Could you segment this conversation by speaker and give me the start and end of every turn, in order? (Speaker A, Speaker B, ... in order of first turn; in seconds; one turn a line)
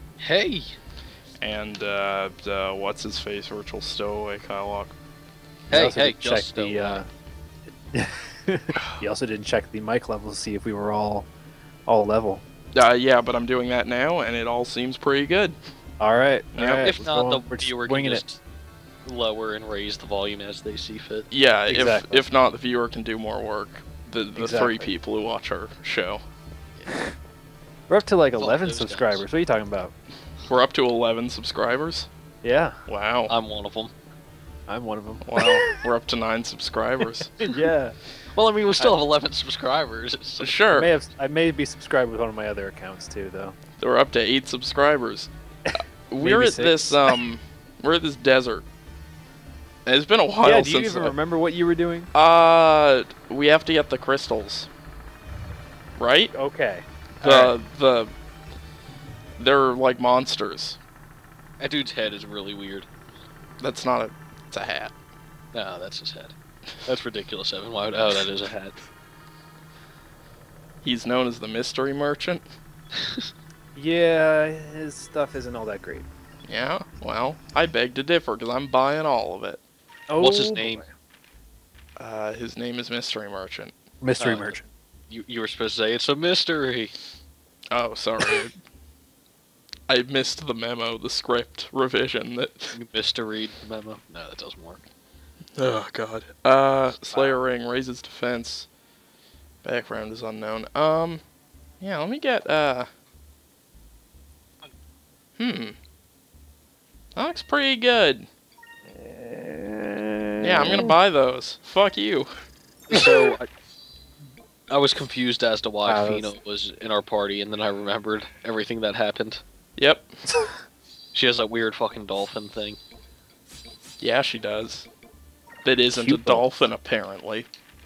Speaker A: 0.2-0.7
Speaker B: 1.4-5.0
Speaker C: 5.7-7.1
Speaker A: 5.7-7.0
Speaker C: 7.9-11.3
Speaker B: 8.8-9.0
Speaker C: 11.9-12.4
Speaker B: 12.8-15.6
Speaker C: 16.0-18.2
Speaker B: 16.5-16.9
Speaker A: 16.8-18.4
Speaker A: 19.1-21.3
Speaker B: 21.3-26.2
Speaker C: 21.7-22.2
Speaker C: 24.4-24.9
Speaker C: 27.9-29.9
Speaker A: 28.4-29.2
Speaker B: 30.4-32.1
Speaker C: 32.4-32.8
Speaker B: 32.9-33.3
Speaker A: 33.3-33.9
Speaker C: 34.7-35.8
Speaker B: 35.2-37.3
Speaker C: 37.4-38.0
Speaker A: 38.3-40.6
Speaker B: 40.4-40.9
Speaker C: 40.7-43.6
Speaker B: 43.8-48.6
Speaker C: 45.7-47.2
Speaker B: 49.9-51.1
Speaker C: 50.4-52.1
Speaker B: 52.1-54.7
Speaker B: 56.0-56.3
Speaker C: 56.3-57.6
Speaker B: 57.2-58.1
Speaker B: 59.4-60.8
Speaker A: 61.6-62.9
Speaker B: 63.6-65.0
Speaker A: 65.5-66.3
Speaker A: 66.9-68.8
Speaker B: 70.8-72.5
Speaker A: 73.0-73.3
Speaker C: 73.8-76.1
Speaker B: 76.5-79.6
Speaker C: 80.1-80.9
Speaker A: 80.2-80.8
Speaker B: 82.0-83.8
Speaker C: 84.0-84.7
Speaker A: 84.2-84.6
Speaker A: 85.1-87.0
Speaker B: 87.7-88.5
Speaker B: 89.9-92.8
Speaker A: 92.7-94.8
Speaker B: 95.6-98.7
Speaker C: 97.1-97.4
Speaker B: 99.6-101.2
Speaker B: 101.8-102.9
Speaker B: 105.4-105.8
Speaker B: 107.2-108.3
Speaker C: 108.9-111.0
Speaker B: 110.4-112.3
Speaker C: 112.9-113.4
Speaker A: 112.9-113.5
Speaker A: 114.7-119.4
Speaker C: 115.8-116.3
Speaker B: 119.8-120.2
Speaker C: 120.3-120.6
Speaker A: 121.1-122.8
Speaker B: 124.0-124.9
Speaker B: 125.6-127.5
Speaker C: 125.9-126.5